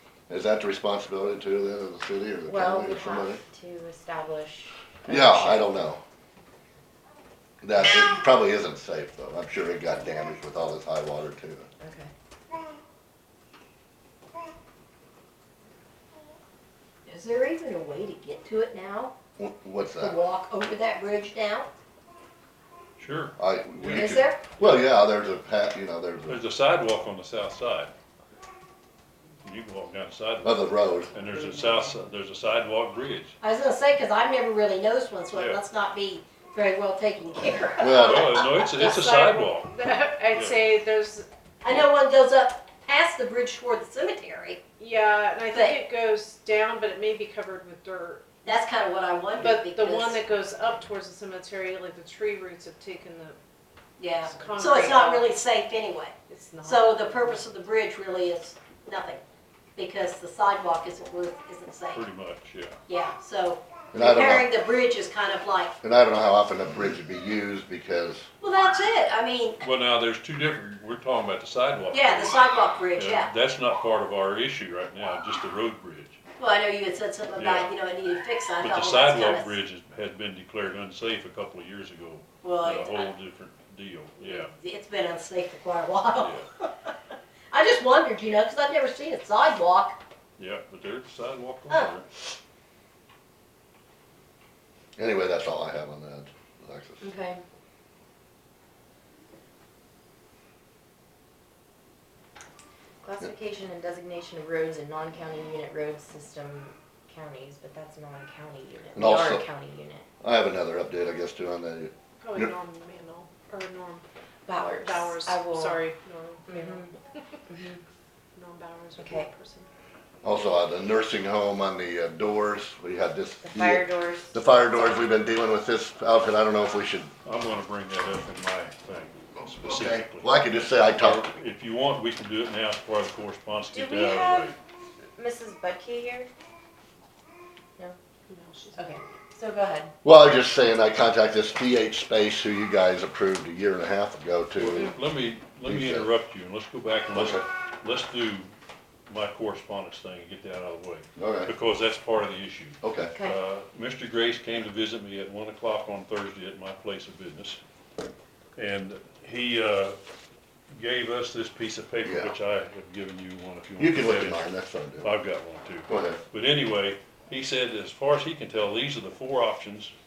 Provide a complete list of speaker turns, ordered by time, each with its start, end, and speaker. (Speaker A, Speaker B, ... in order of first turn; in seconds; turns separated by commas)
Speaker A: 0.3-3.4, Speaker B: 2.5-6.0, Speaker A: 5.1-6.0, Speaker A: 7.6-11.7, Speaker B: 11.8-12.1, Speaker C: 17.1-19.1, Speaker A: 19.4-20.2, Speaker C: 20.0-21.7, Speaker D: 23.0-24.9, Speaker A: 23.4-26.4, Speaker C: 23.9-24.4, Speaker D: 26.3-27.9, Speaker D: 29.4-33.4, Speaker A: 30.4-31.1, Speaker C: 33.4-38.8, Speaker D: 35.3-35.6, Speaker A: 37.8-38.4, Speaker D: 37.8-39.8, Speaker E: 38.7-41.3, Speaker D: 40.3-40.6, Speaker C: 41.6-44.6, Speaker E: 44.8-48.7, Speaker C: 45.5-45.8, Speaker C: 48.5-50.2, Speaker E: 49.4-53.4, Speaker C: 54.0-59.2, Speaker E: 54.2-55.3, Speaker E: 56.3-57.5, Speaker C: 59.8-62.0, Speaker D: 61.9-62.8, Speaker C: 62.9-65.8, Speaker A: 63.9-64.5, Speaker A: 65.8-68.3, Speaker C: 68.4-69.6, Speaker D: 69.6-72.4, Speaker C: 71.9-73.3, Speaker D: 72.9-76.2, Speaker C: 76.4-79.6, Speaker D: 77.3-77.7, Speaker D: 78.6-84.5, Speaker C: 82.4-83.1, Speaker C: 84.2-86.9, Speaker D: 86.2-86.5, Speaker C: 87.5-90.0, Speaker D: 90.4-92.1, Speaker C: 91.7-91.9, Speaker A: 95.0-97.0, Speaker B: 97.0-97.4, Speaker B: 103.0-110.0, Speaker A: 109.0-109.5, Speaker A: 110.2-112.5, Speaker E: 112.2-114.1, Speaker B: 114.5-115.9, Speaker E: 114.8-116.9, Speaker B: 116.5-116.9, Speaker B: 117.5-117.8, Speaker E: 118.3-119.7, Speaker B: 119.0-119.3, Speaker A: 120.2-127.1, Speaker B: 123.4-124.4, Speaker D: 127.2-134.6, Speaker A: 129.5-131.3, Speaker B: 133.7-134.6, Speaker B: 135.2-136.3, Speaker E: 138.3-138.8, Speaker B: 138.8-139.9, Speaker A: 140.0-144.9, Speaker D: 144.6-148.5, Speaker A: 145.7-146.1, Speaker A: 147.1-147.5, Speaker D: 149.1-157.6, Speaker A: 151.2-151.5, Speaker A: 152.8-153.1, Speaker B: 153.1-153.4, Speaker D: 158.6-160.0, Speaker D: 160.7-164.5, Speaker A: 162.0-162.4, Speaker A: 163.8-165.1, Speaker D: 165.0-169.9, Speaker A: 165.9-166.2